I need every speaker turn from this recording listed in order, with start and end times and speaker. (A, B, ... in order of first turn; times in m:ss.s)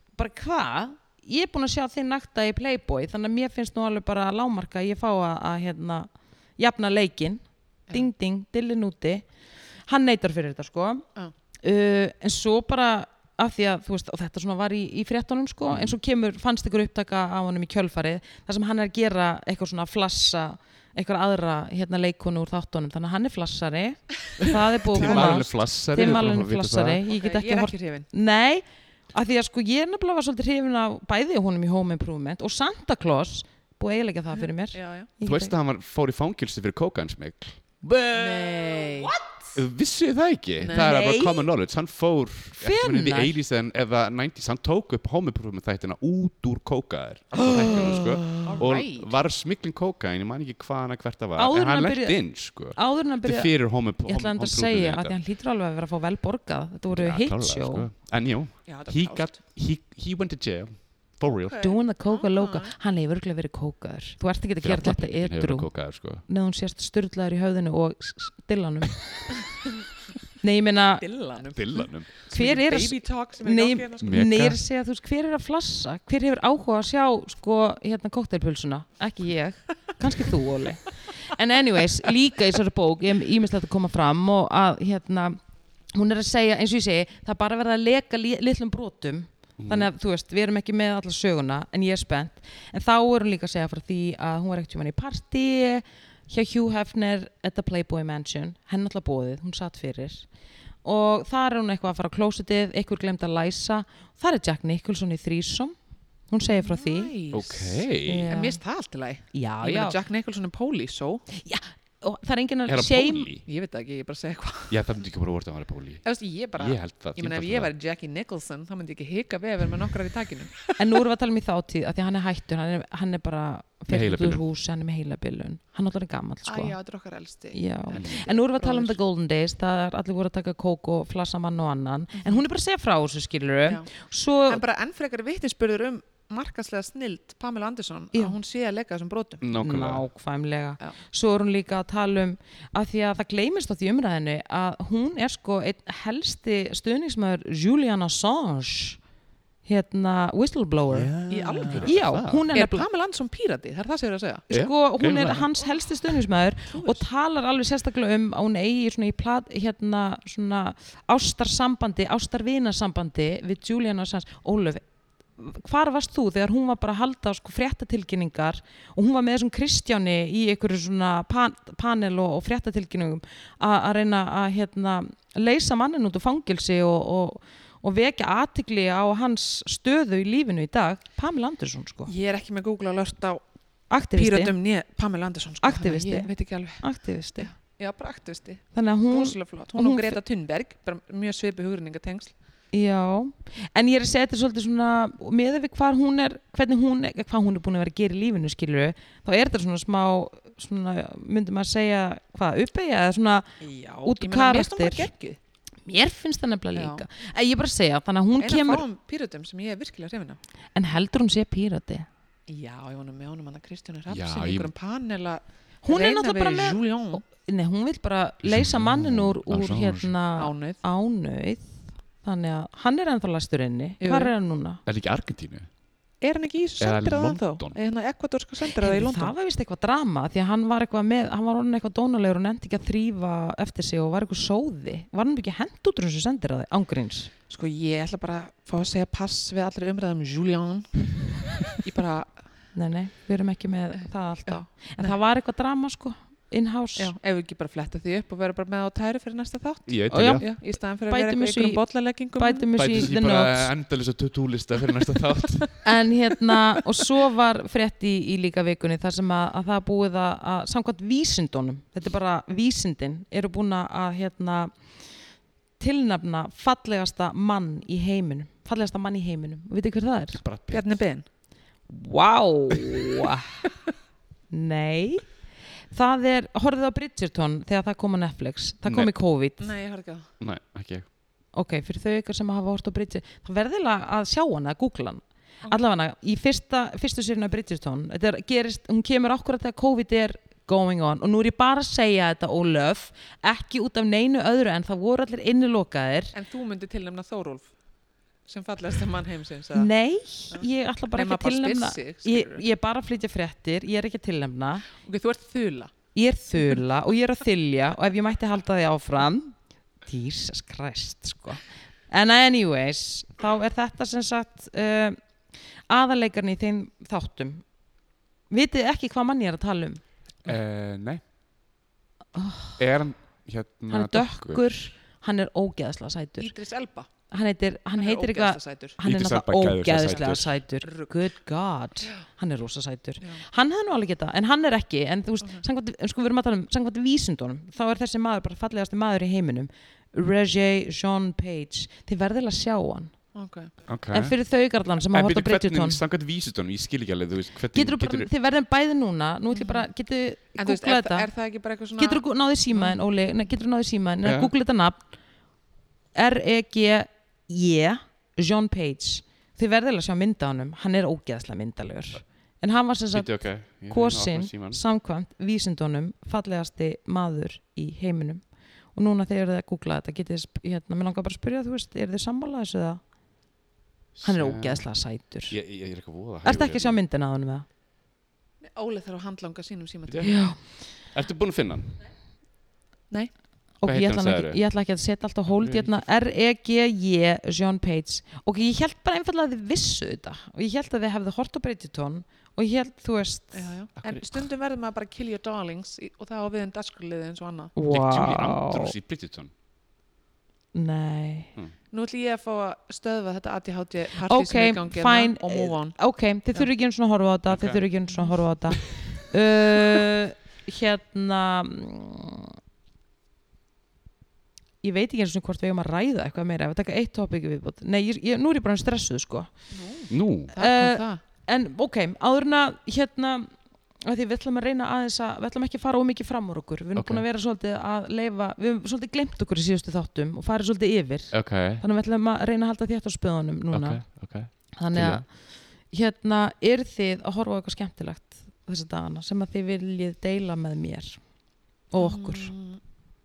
0:00.2-0:09.2 A
0:09.9-0:11.0 A
0:11.6-0:35.5 A
0:15.7-0:16.0 B
0:24.4-0:27.0 B
0:25.0-0:25.4 C
0:27.1-0:28.1 C
0:34.4-0:35.1 C
0:35.2-0:37.6 B
0:37.8-0:39.6 A
0:38.1-0:39.1 C
0:39.6-0:55.2 B
0:40.6-0:40.9 C
0:40.7-0:41.5 A
0:42.5-0:43.3 A
0:47.4-0:48.6 A
0:48.4-0:49.2 C
0:51.4-0:57.9 A
0:56.9-1:01.6 B
0:58.7-0:59.4 C
1:01.4-1:02.7 C
1:01.6-1:05.7 A
1:04.6-1:06.2 B
1:06.3-1:09.4 A
1:10.4-1:11.0 A
1:11.0-1:14.4 C
1:11.5-1:12.1 B
1:12.3-1:25.4 A
1:14.0-1:14.6 B
1:25.9-1:40.3 A
1:29.6-1:29.9 B
1:40.8-1:45.7 A
1:46.3-1:47.1 A
1:46.5-1:51.3 C
1:47.3-1:48.3 B
1:48.0-1:48.6 A
1:49.3-1:50.0 A
1:51.3-1:53.3 A
1:52.7-1:53.4 B
1:53.4-1:54.8 C
1:54.7-1:56.0 B
1:56.0-2:01.0 C
1:56.6-1:57.7 B
2:00.8-2:06.8 A
2:03.9-2:04.4 B
2:06.4-2:09.0 C
2:07.5-2:14.6 A
2:07.9-2:08.2 B
2:12.2-2:12.4 C
2:14.5-2:19.4 C
2:19.4-2:20.0 B
2:19.5-2:29.0 A
2:29.6-2:31.1 A
2:30.9-2:32.4 B
2:31.3-2:32.0 C
2:31.7-2:32.8 A
2:32.5-2:34.4 C
2:34.5-2:44.8 A
2:34.5-2:35.5 B
2:36.7-2:37.0 C
2:45.4-3:02.1 A
3:02.0-3:03.4 C
3:03.9-3:04.5 A
3:04.1-3:12.3 C
3:05.6-3:07.5 A
3:08.7-3:10.2 A
3:12.7-3:25.1 A
3:23.6-3:25.4 C
3:25.8-3:28.8 A
3:26.7-3:27.0 C
3:28.4-3:30.4 C
3:30.7-3:32.1 A
3:32.5-3:37.2 C
3:34.1-3:34.7 B
3:35.8-3:44.8 A
3:38.4-3:40.1 B
3:40.4-3:40.8 C
3:44.0-3:44.3 C
3:44.9-3:45.7 B
3:46.2-3:49.3 C
3:46.8-3:47.8 B
3:48.8-3:57.3 A
3:57.5-4:02.4 C
4:02.7-4:07.1 A
4:04.0-4:05.2 C
4:07.0-4:13.0 C
4:09.9-4:10.4 B
4:10.1-4:11.8 A
4:12.4-4:13.7 A
4:12.8-4:15.7 B
4:15.8-4:24.7 A
4:25.8-4:30.4 A
4:30.4-4:31.0 B
4:30.7-4:31.2 C
4:31.9-4:33.7 A
4:34.5-4:35.2 A
4:35.9-4:39.7 A
4:38.9-4:39.1 B
4:39.6-4:40.3 C
4:40.4-4:41.1 B
4:41.5-4:56.3 A
4:56.3-4:57.7 C
4:58.5-4:59.9 C
4:59.7-5:04.9 A
5:00.5-5:02.6 C
5:04.9-5:05.9 C
5:06.1-5:09.6 A
5:10.0-5:15.2 A
5:15.9-5:17.6 A
5:18.5-5:20.0 A
5:20.4-5:21.2 B
5:22.3-5:22.8 A
5:22.8-5:24.7 B
5:23.9-5:26.5 A
5:26.4-5:27.1 C
5:27.3-5:43.1 A
5:28.0-5:29.0 C
5:29.0-5:30.6 B
5:30.0-5:31.1 C
5:43.3-5:43.8 C
5:43.9-5:44.4 B
5:44.1-5:46.0 A
5:45.1-5:48.3 B
5:47.7-5:51.3 A
5:49.5-5:49.9 C
5:50.6-5:53.0 C
5:52.0-5:55.0 A
5:54.2-5:54.5 B
5:56.1-6:03.3 A
6:03.1-6:04.8 B
6:03.9-6:08.4 A
6:09.0-6:13.0 A
6:14.1-6:14.9 B
6:14.2-6:15.6 A
6:15.5-6:17.0 B
6:16.4-6:17.7 A
6:18.6-6:20.3 C
6:20.1-6:20.4 B
6:20.2-6:20.6 A
6:21.0-6:21.9 B
6:23.8-6:33.7 A
6:23.8-6:24.6 B
6:25.6-6:26.0 B
6:33.5-6:37.7 C
6:34.0-6:34.4 B
6:37.8-6:38.9 A
6:37.9-6:39.5 B
6:40.7-6:41.5 A
6:41.9-6:46.0 C
6:44.2-6:52.6 A
6:47.5-6:47.8 B
6:54.8-6:59.5 A
6:59.7-7:01.2 C
7:00.1-7:00.5 B
7:00.6-7:14.0 A
7:07.0-7:07.2 B
7:11.3-7:11.8 B
7:13.7-7:15.2 B
7:14.7-7:15.4 A
7:15.9-7:21.2 A
7:21.9-7:22.5 A
7:22.0-7:22.8 C